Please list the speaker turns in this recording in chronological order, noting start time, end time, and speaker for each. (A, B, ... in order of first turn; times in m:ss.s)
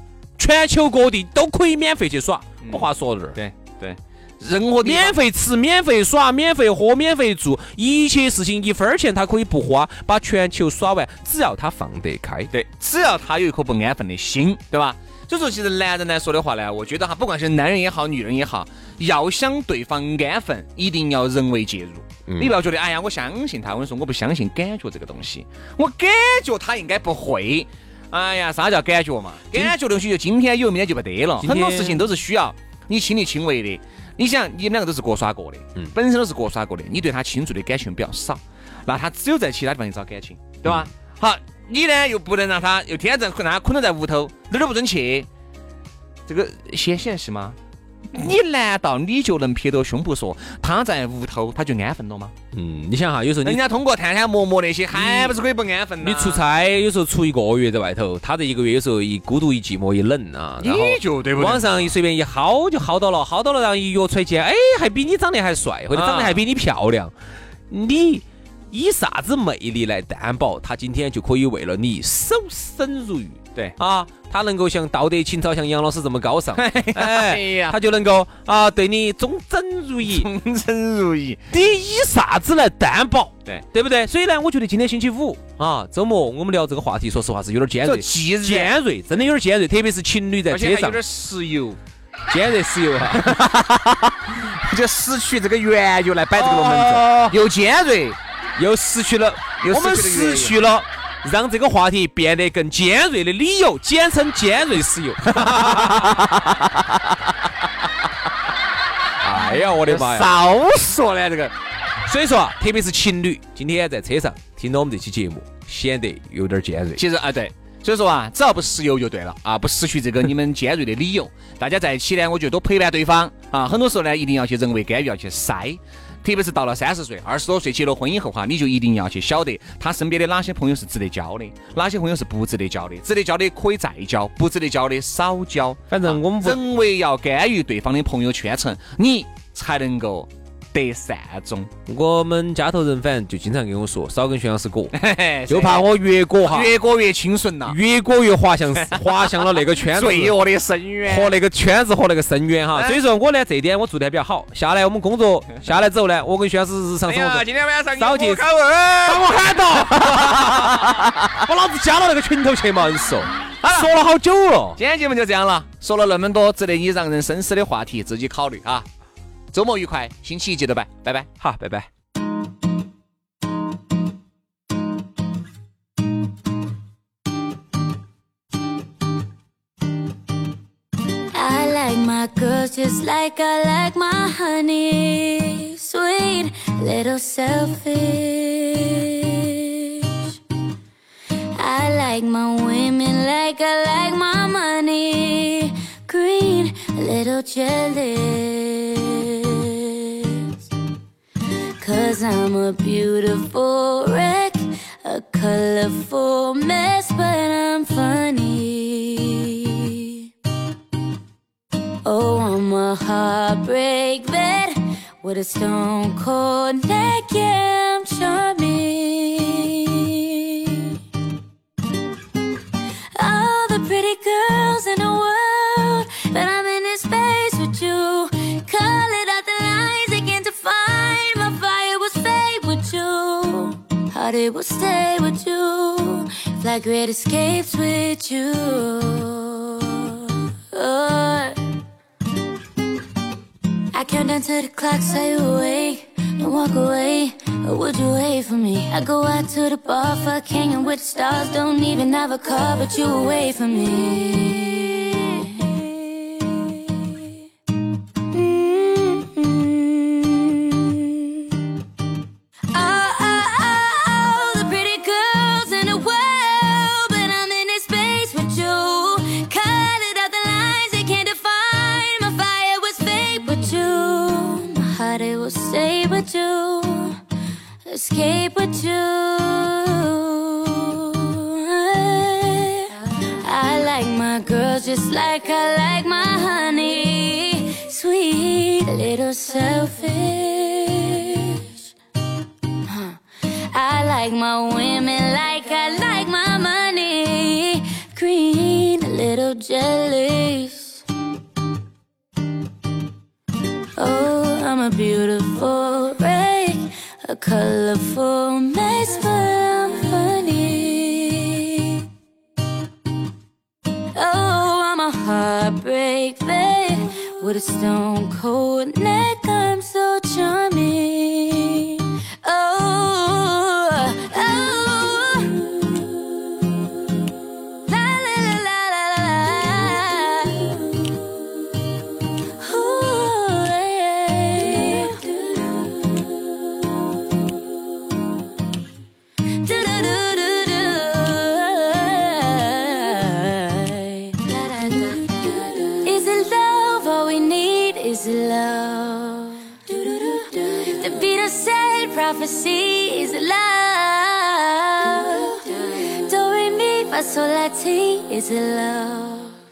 0:00.4-0:03.4 A
0:02.6-0:05.2 B
0:04.8-0:12.5 A
0:12.5-0:45.3 B
0:22.3-0:22.5 A
0:31.4-0:32.1 A
0:46.3-0:47.6 B
0:48.1-0:52.3 B
0:52.5-0:53.6 A
0:53.4-0:56.4 B
0:54.9-0:55.4 A
0:56.0-1:07.1 A
1:00.6-1:01.9 B
1:05.9-1:06.4 B
1:07.7-1:20.3 A
1:16.6-1:17.8 B
1:20.0-1:21.4 B
1:21.5-1:31.0 A
1:27.8-1:28.7 B
1:30.5-1:31.8 B
1:32.3-1:33.3 A
1:33.1-1:38.2 B
1:36.4-1:37.4 A
1:38.6-1:46.6 A
1:39.6-1:40.6 B
1:45.3-1:46.5 B
1:49.2-1:50.3 A
1:49.8-1:51.5 B
1:52.0-1:57.0 A
1:57.0-2:21.7 B
2:15.9-2:16.6 A
2:21.8-2:25.0 A
2:24.9-2:25.9 B
2:25.5-2:26.7 A
2:26.4-2:27.8 B
2:27.7-2:30.4 A
2:28.8-2:29.1 B
2:29.8-2:31.4 B
2:31.0-2:38.5 A
2:37.0-2:41.1 B
2:39.0-2:44.8 A
2:43.6-2:43.9 B
2:44.8-2:48.8 B
2:49.5-2:51.3 B
2:51.4-2:51.9 A
3:01.3-3:10.4 C
3:11.6-3:20.6 C
3:21.8-3:30.2 C
3:32.0-3:41.0 C
3:43.1-4:01.6 C
4:03.9-4:17.3 C
4:18.2-4:21.6 C
4:22.7-4:37.2 C
4:37.9-4:51.9 C
4:52.8-5:01.0 C
5:04.0-5:12.0 C
5:14.1-5:26.1 C
5:27.9-5:31.8 C
5:32.4-5:38.1 C
5:39.5-5:59.6 C